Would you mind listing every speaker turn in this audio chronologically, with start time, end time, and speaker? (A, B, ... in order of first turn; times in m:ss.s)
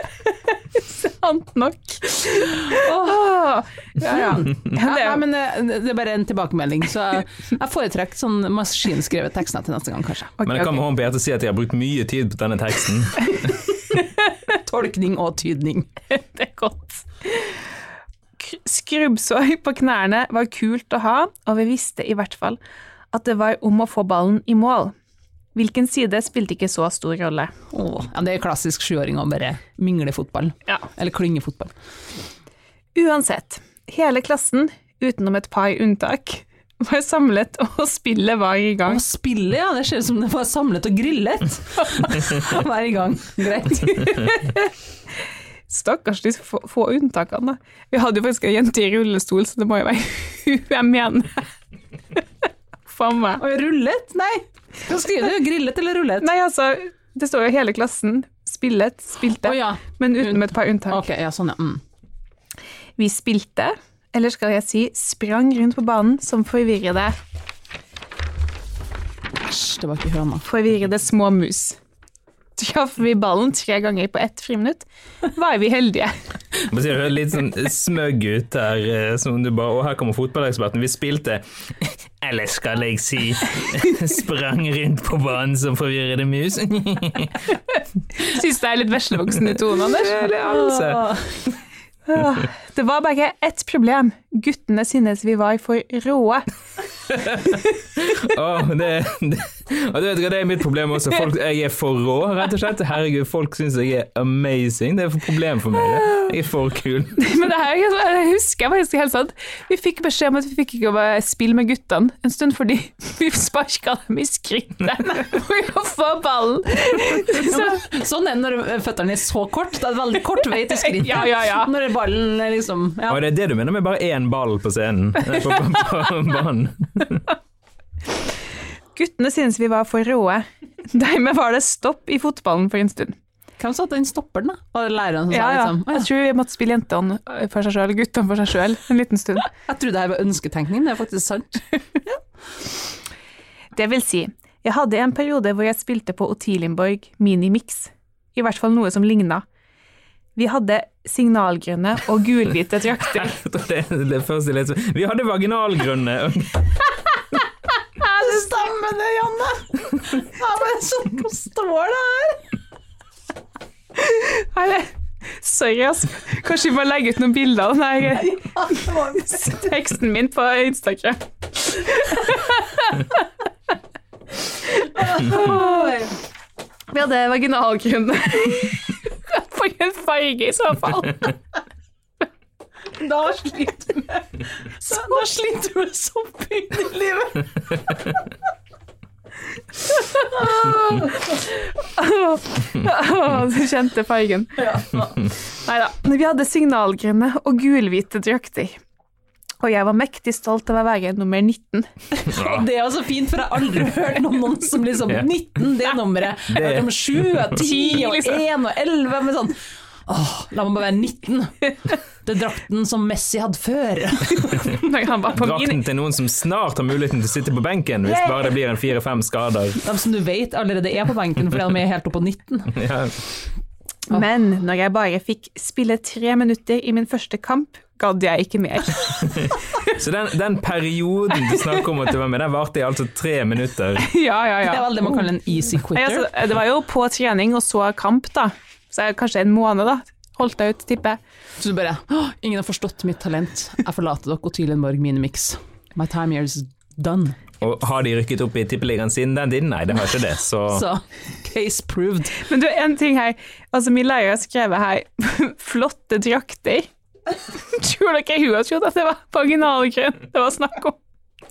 0:00.7-0:05.2 A
0:02.6-0:03.3 B
0:04.0-0:10.3 B
0:10.4-0:10.8 A
0:10.4-0:13.5 C
0:14.5-0:15.9 B
0:16.1-0:17.6 A
0:18.4-0:22.6 A
0:23.1-0:24.9 A
0:25.5-0:27.5 A
0:27.7-0:31.7 B
0:32.9-0:39.0 A
0:38.8-0:44.4 B
0:44.2-0:44.7 A
0:45.7-0:51.5 A
0:52.9-0:53.4 A
0:53.4-0:56.3 B
0:56.2-1:01.0 A
0:59.4-1:01.8 B
1:03.0-1:07.2 A
1:09.4-1:10.4 B
1:10.4-1:11.8 A
1:12.6-1:16.1 A
1:16.7-1:27.4 C
1:28.2-1:30.4 A
1:30.1-1:31.1 C
1:30.2-1:31.3 B
1:32.0-1:36.5 A
1:37.1-1:47.2 C
1:47.2-1:57.8 A
1:57.3-2:03.2 B
2:00.9-2:01.7 A
2:03.1-2:07.3 C
2:09.0-2:13.2 A
2:13.6-2:16.1 B
2:15.3-2:19.5 A
2:19.5-2:21.8 B
2:23.7-2:29.4 A
2:30.4-2:33.4 A
2:33.2-2:36.8 C
2:38.0-2:42.4 B
2:44.0-2:53.2 A
2:48.4-2:49.5 B
2:54.8-2:56.0 A
2:54.9-2:56.1 B
2:56.9-3:01.3 A
3:02.9-3:07.7 B
3:10.2-3:18.8 A
3:14.6-3:15.2 B
3:19.6-3:21.9 A
3:22.2-3:34.7 B
3:22.4-3:22.6 C
3:26.5-3:27.5 C
3:27.6-3:28.4 A
3:34.6-3:35.8 A
3:35.3-3:39.8 C
3:39.8-3:42.8 B
3:42.7-3:43.2 C
3:44.1-3:49.5 A
3:49.4-3:54.1 C
3:54.0-3:55.2 A
3:54.6-3:56.3 B
3:55.9-4:01.2 A
4:01.6-4:07.4 B
4:07.6-4:10.8 C
4:10.7-4:12.4 B
4:12.4-4:16.9 A
4:17.5-4:21.0 A